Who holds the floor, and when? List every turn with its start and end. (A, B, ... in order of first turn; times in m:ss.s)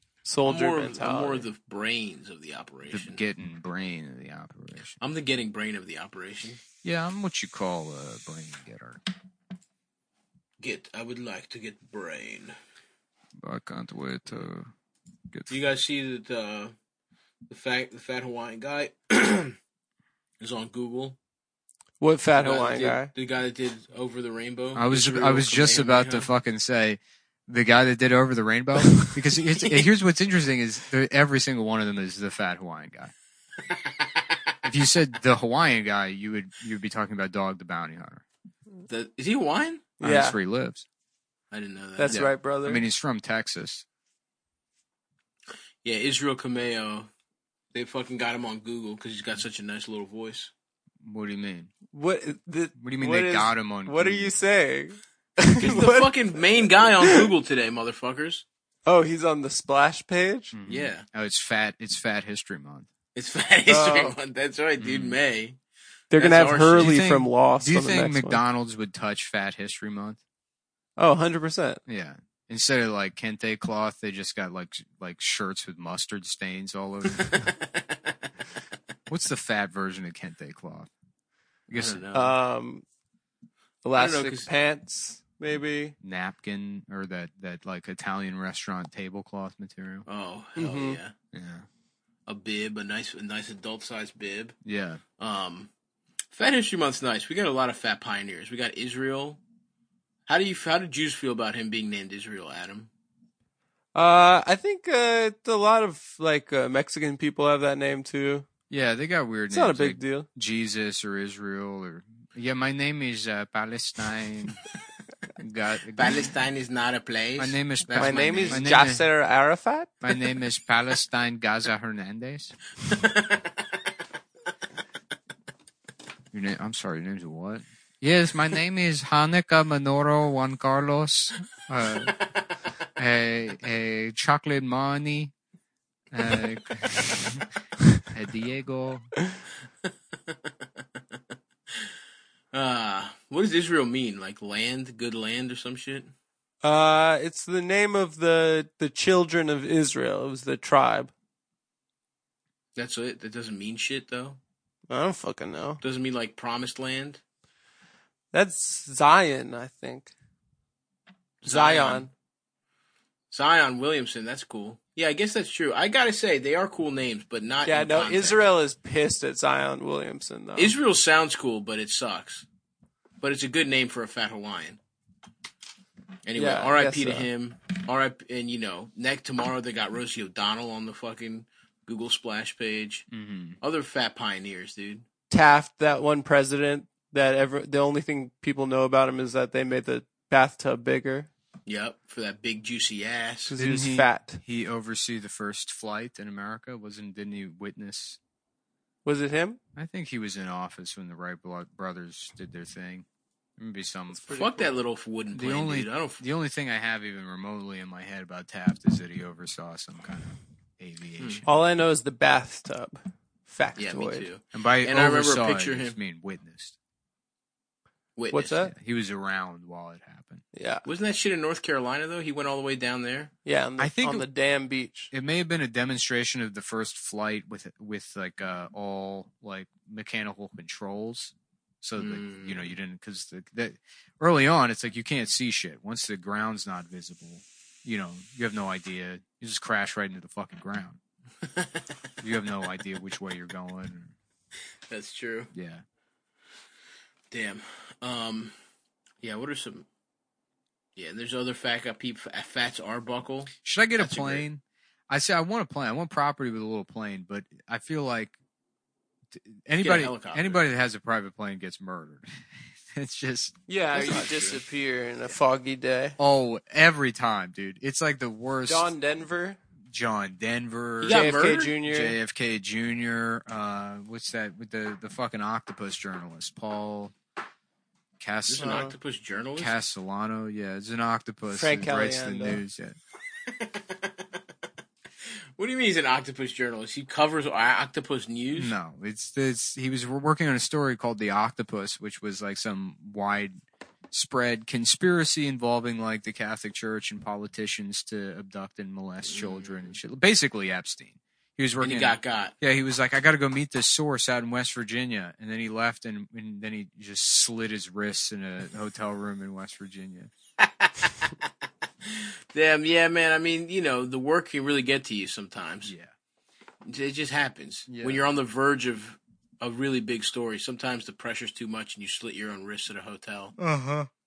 0:00.2-0:01.5 A
0:00.4-0:03.2 B
0:02.9-0:05.0 C
0:05.0-0:06.6 B
0:06.8-0:09.0 C
0:10.6-0:12.6 B
0:13.4-0:14.7 C
0:15.5-0:16.7 B
0:17.5-0:19.6 B
0:20.4-0:21.2 B
0:22.0-0:23.1 A
0:22.4-0:26.3 B
0:24.8-0:33.1 C
0:34.6-0:38.2 C
0:38.9-0:39.9 B
0:40.0-0:40.4 A
0:40.0-0:40.8 C
0:41.5-0:42.2 B
0:42.0-0:42.8 A
0:42.1-0:43.8 C
0:45.8-0:47.1 B
0:47.7-0:50.5 B
0:51.0-0:51.7 C
0:51.9-0:56.1 A
0:52.8-0:54.3 C
0:55.5-0:58.4 B
0:57.0-0:57.3 A
0:58.9-1:00.5 A
1:00.5-1:02.9 C
1:00.7-1:01.0 B
1:03.2-1:05.6 B
1:03.7-1:04.2 A
1:04.8-1:05.2 C
1:06.1-1:08.4 A
1:06.2-1:06.9 B
1:06.7-1:10.2 C
1:11.0-1:11.8 A
1:11.9-1:17.5 C
1:17.3-1:17.8 B
1:19.1-1:20.9 C
1:21.7-1:22.0 C
1:21.8-1:22.4 B
1:22.1-1:22.8 A
1:23.8-1:26.0 A
1:24.0-1:24.5 B
1:26.0-1:30.1 C
1:30.1-1:31.1 B
1:30.6-1:31.0 A
1:31.3-1:31.7 C
1:32.3-1:34.6 B
1:34.6-1:35.0 C
1:35.2-1:35.7 B
1:36.3-1:39.4 B
1:40.3-1:42.9 B
1:44.0-1:48.5 A
1:48.7-1:54.6 C
1:49.5-1:50.3 A
1:55.4-1:56.2 C
1:56.0-1:58.7 B
1:57.4-1:59.0 C
1:58.0-1:59.9 A
2:00.0-2:02.6 C
2:02.9-2:03.6 B
2:06.3-2:12.1 C
2:13.0-2:15.3 C
2:16.1-2:17.5 C
2:18.1-2:19.1 C
2:22.5-2:26.1 B
2:26.6-2:31.1 A
2:32.8-2:34.4 B
2:34.9-2:35.8 A
2:35.8-2:37.2 B
2:38.3-2:40.1 A
2:41.4-2:42.1 B
2:41.4-2:42.1 A
2:43.3-2:48.4 B
2:47.7-2:50.7 A
2:50.6-2:52.5 B
2:53.2-2:54.8 B
2:56.3-3:03.1 B
2:56.4-2:57.3 A
3:03.1-3:03.6 C
3:03.6-3:05.0 B
3:05.3-3:11.3 A
3:11.7-3:13.5 B
3:13.5-3:14.4 A
3:13.6-3:18.2 C
3:19.0-3:19.6 A
3:19.8-3:23.0 C
3:23.6-3:24.5 C
3:24.1-3:24.7 A
3:24.3-3:26.2 B
3:25.3-3:31.5 C
3:31.2-3:31.4 B
3:31.4-3:34.3 A
3:33.8-3:36.0 B
3:34.5-3:36.8 C
3:38.2-3:38.6 B
3:38.3-3:38.7 A
3:38.6-3:40.4 C
3:40.5-3:40.8 A
3:40.8-3:43.3 B
3:43.4-3:45.1 A
3:43.8-3:44.3 C
3:45.1-4:01.0 C
3:52.0-3:52.8 B
4:01.4-4:01.7 B
4:02.2-4:04.2 C
4:04.9-4:05.5 B
4:05.5-4:05.8 C
4:07.3-4:08.5 B
4:09.2-4:09.9 B
4:11.0-4:14.4 B
4:13.6-4:18.3 C
4:19.3-4:22.3 C
4:19.8-4:20.6 B
4:22.9-4:23.6 C
4:23.7-4:26.2 A
4:23.9-4:24.6 B
4:26.2-4:28.9 C
4:28.7-4:29.6 A
4:29.9-4:31.2 C
4:31.0-4:31.8 B
4:31.0-4:32.2 A
4:31.8-4:37.1 C
4:38.2-4:38.8 C
4:38.5-4:39.8 B
4:38.6-4:38.9 A
4:39.6-4:43.0 C
4:41.5-4:42.6 A
4:43.5-4:44.1 B
4:45.6-4:48.7 B
4:48.6-4:53.6 C
4:54.1-5:10.3 C
4:59.2-5:00.0 B
5:01.8-5:02.5 B
5:10.6-5:10.9 B
5:12.1-5:15.9 B
5:15.8-5:16.1 C
5:16.8-5:23.5 B
5:17.9-5:18.2 C
5:23.6-5:24.1 C